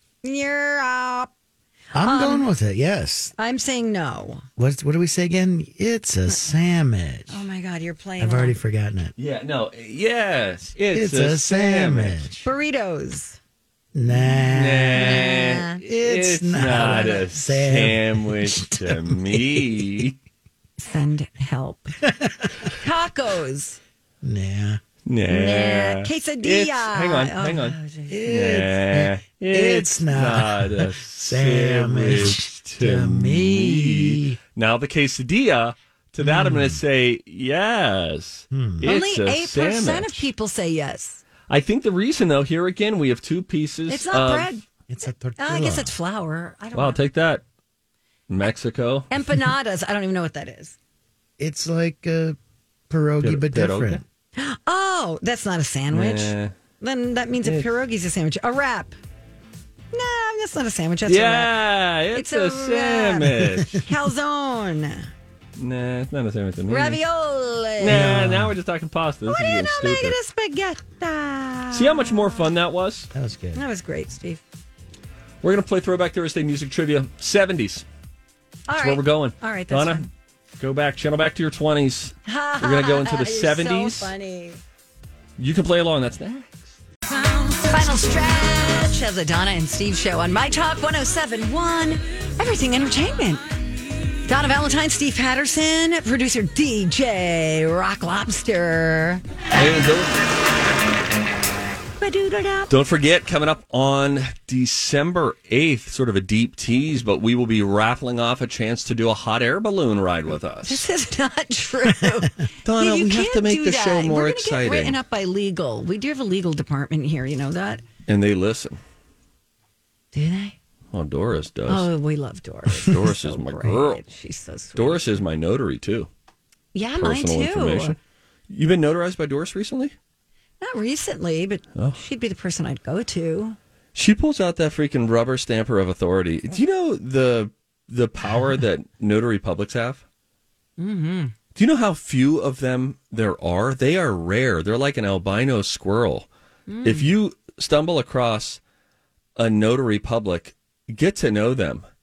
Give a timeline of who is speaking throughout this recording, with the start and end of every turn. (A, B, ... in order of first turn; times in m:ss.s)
0:00.2-0:01.3 A
0:01.9-0:03.3 B
0:02.0-0:02.5 A
0:03.4-0:04.4 A
0:04.6-0:07.4 B
0:07.3-0:08.6 A
0:08.2-0:09.1 B
0:09.2-0:12.4 C
0:10.9-0:12.4 B
0:12.4-0:13.4 A
0:13.9-0:19.8 B
0:14.1-0:20.2 C
0:15.0-0:15.8 A
0:16.7-0:17.2 A
0:20.8-0:22.0 A
0:22.1-0:22.5 B
0:22.8-0:23.8 A
0:24.2-0:24.8 B
0:25.0-0:40.3 C
0:25.3-0:28.2 A
0:28.1-0:34.4 B
0:36.2-0:36.8 B
0:38.5-0:38.9 B
0:38.8-0:41.2 A
0:41.5-0:44.5 C
0:43.9-0:44.6 A
0:44.9-0:45.9 B
0:45.4-0:47.0 A
0:46.7-0:47.4 C
0:48.3-0:49.1 C
0:49.1-0:50.8 A
0:51.4-0:52.4 B
0:52.9-0:54.0 B
0:53.2-0:54.0 C
0:54.4-0:59.0 A
0:55.9-0:56.5 C
0:59.9-1:01.5 A
1:01.0-1:03.8 C
1:02.1-1:05.1 A
1:05.6-1:07.0 C
1:06.7-1:08.2 A
1:07.8-1:10.2 C
1:07.9-1:08.5 B
1:09.3-1:12.4 A
1:11.7-1:13.1 C
1:13.1-1:13.6 B
1:13.5-1:14.4 A
1:15.4-1:17.8 C
1:18.7-1:20.1 A
1:18.8-1:20.1 C
1:20.6-1:24.1 C
1:22.2-1:24.6 A
1:25.4-1:26.7 C
1:27.4-1:33.4 A
1:34.3-1:39.2 A
1:39.5-1:40.2 C
1:42.0-1:42.7 A
1:42.7-1:50.8 C
1:50.6-1:57.8 A
1:52.6-1:55.0 C
1:58.1-1:58.8 C
2:00.1-2:00.6 A
2:00.9-2:01.9 C
2:01.7-2:05.1 A
2:02.7-2:04.0 C
2:04.8-2:06.1 C
2:06.7-2:08.0 A
2:07.0-2:08.0 C
2:08.5-2:09.9 C
2:10.6-2:13.6 A
2:13.9-2:20.0 C
2:20.8-2:21.3 A
2:21.5-2:26.3 C
2:26.7-2:27.1 A
2:26.8-2:28.6 C
2:29.4-2:31.8 C